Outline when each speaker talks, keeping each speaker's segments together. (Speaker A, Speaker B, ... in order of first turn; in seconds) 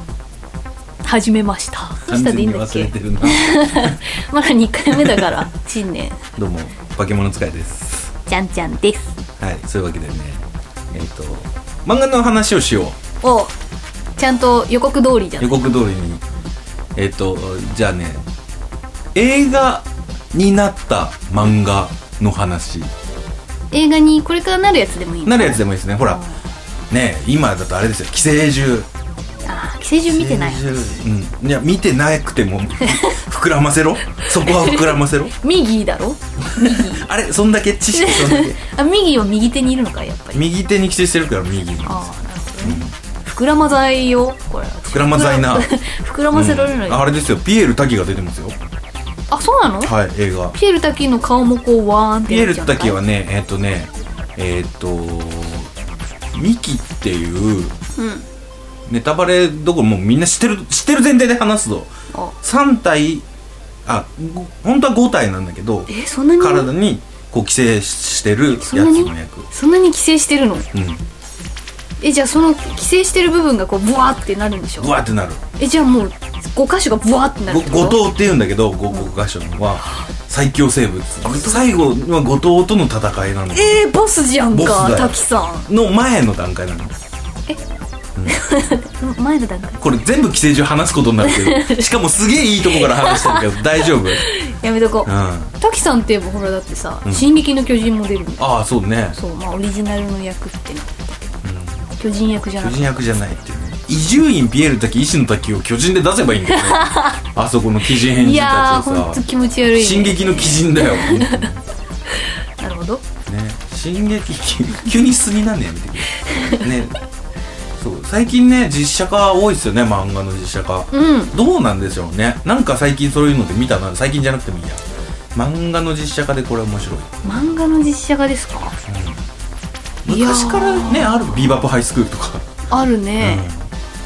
Speaker A: 1.0-6.2, 8.3-9.2, 13.2-13.5, 14.2-15.7, 23.7-26.4, 29.5-31.1, 32.8-33.1, 34.2-37.1, 37.9-40.4, 41.8-47.1, 49.3-49.9, 50.5-53.0, 58.0-58.2, 65.9-66.7, 68.6-70.7, 72.0-75.0, 75.6-78.0, 79.8-80.1, 81.2-81.7, 83.5-85.7, 88.3-89.8, 91.2-91.9, 92.6-98.5, 99.1-101.3, 102.0-102.9, 106.5-107.2, 107.9-111.5, 112.2-113.0, 116.2-116.7, 120.9-121.3, 127.2-128.8, 130.1-131.6, 132.7-133.5
Speaker B: 2.1-4.0, 5.0-5.4, 6.4-8.1, 9.4-13.0, 15.4-16.2, 16.9-18.2, 19.1-22.9, 25.2-26.2, 26.9-28.9, 30.1-35.3, 36.5-38.6, 40.3-42.1, 42.6-42.9, 44.9-45.7, 46.3-48.6, 49.8-50.6, 52.2-55.7, 56.3-57.8, 58.9-61.9, 62.4-63.3, 63.9-69.5, 70.7-71.0, 74.8-75.4, 77.5-83.8, 84.5-86.9, 89.8-94.2, 95.1-95.5, 98.4-99.2, 101.4-101.9, 102.6-109.2, 109.8-111.6, 113.3-117.0, 117.8-127.2, 128.9-129.2, 130.0-132.5, 133.2-133.7